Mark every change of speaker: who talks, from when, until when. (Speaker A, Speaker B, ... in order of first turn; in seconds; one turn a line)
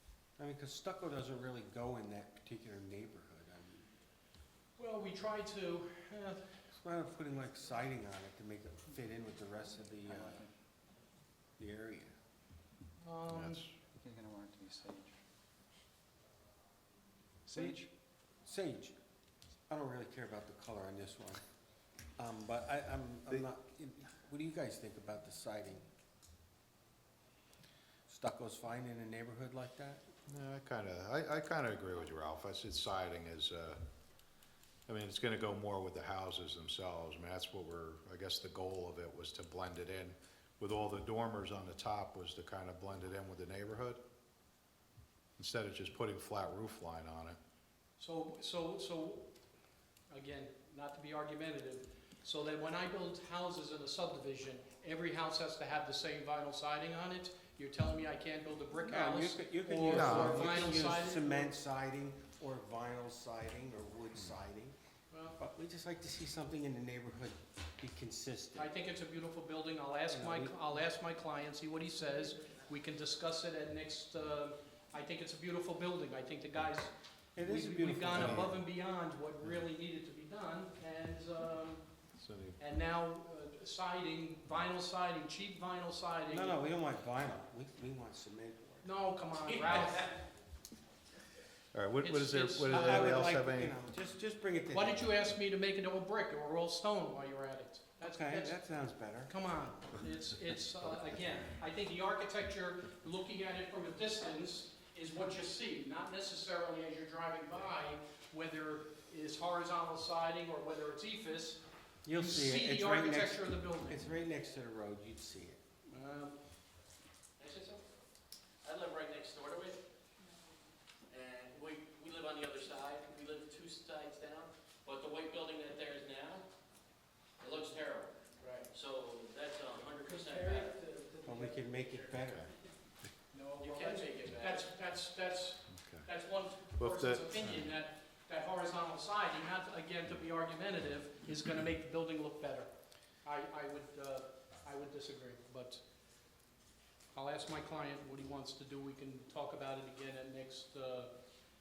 Speaker A: 0.4-3.9
Speaker B: 4.8-6.6
Speaker A: 6.7-10.5
Speaker C: 10.1-10.5
Speaker A: 11.6-12.1
Speaker B: 13.0-13.7
Speaker D: 13.3-13.7
Speaker C: 14.0-15.1
Speaker C: 17.4-17.9
Speaker A: 18.4-18.9
Speaker A: 19.7-21.4
Speaker A: 22.2-25.9
Speaker A: 28.1-30.0
Speaker D: 30.3-33.8
Speaker D: 34.9-44.0
Speaker D: 45.4-47.4
Speaker B: 48.0-49.3
Speaker B: 50.1-61.5
Speaker A: 58.9-64.7
Speaker D: 59.9-60.5
Speaker B: 65.1-65.4
Speaker A: 65.4-68.7
Speaker B: 68.5-81.8
Speaker A: 70.1-70.6
Speaker A: 77.3-78.6
Speaker D: 78.1-78.5
Speaker D: 82.2-82.6
Speaker B: 82.6-86.6
Speaker A: 86.3-88.9
Speaker B: 88.8-90.2
Speaker D: 91.7-93.7
Speaker B: 92.0-93.3
Speaker A: 92.7-95.2
Speaker B: 94.7-98.6
Speaker A: 98.0-99.3
Speaker B: 99.2-114.1
Speaker A: 112.0-115.6
Speaker B: 115.9-116.4
Speaker E: 117.4-117.8
Speaker E: 118.6-119.8
Speaker E: 121.1-126.5
Speaker E: 127.4-130.8
Speaker B: 128.4-128.7
Speaker B: 130.0-132.1
Speaker A: 131.2-132.5
Speaker B: 133.3-142.7
Speaker E: 133.6-134.6
Speaker D: 135.7-136.1
Speaker D: 136.8-137.6
Speaker B: 143.2-145.8
Speaker B: 147.1-151.1